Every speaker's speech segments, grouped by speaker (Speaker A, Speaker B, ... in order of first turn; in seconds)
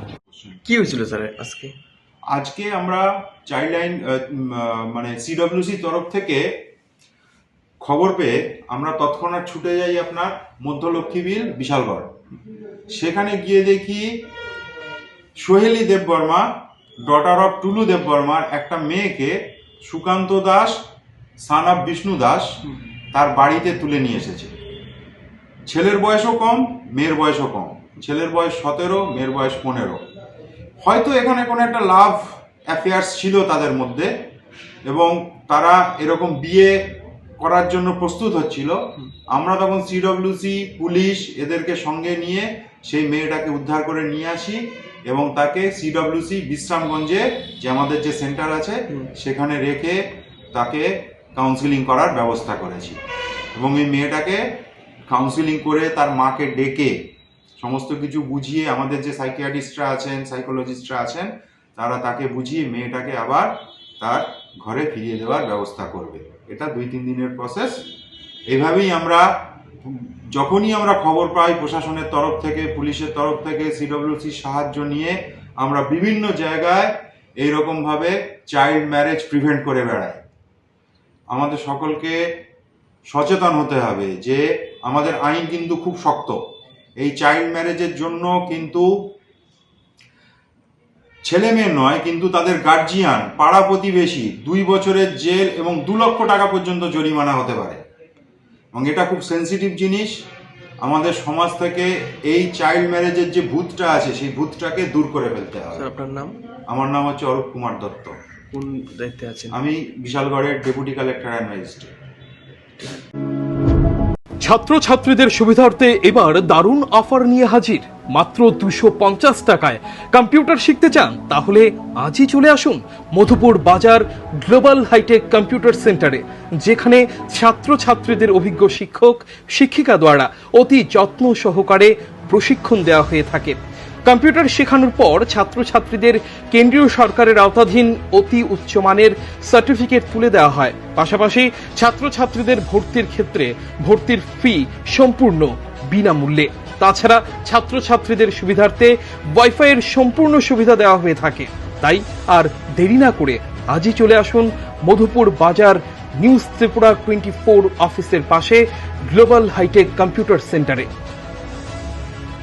Speaker A: 0.3-0.6, 2.3-6.4, 7.8-12.1, 12.9-14.2, 15.4-16.4, 17.0-20.8, 21.4-22.6, 23.1-24.5, 25.7-30.0, 30.8-34.1, 34.9-36.8, 37.4-38.8, 39.3-50.0, 50.5-53.0, 53.5-54.4, 55.1-56.9, 57.6-67.8, 68.5-69.2, 69.8-80.2, 81.3-82.2, 83.1-86.4, 87.0-89.1, 91.2-97.8, 98.7-100.1, 100.8-105.9, 106.7-108.1, 109.5-111.9
Speaker B: 0.6-1.7, 105.7-106.4, 108.5-109.6
Speaker C: 114.4-160.9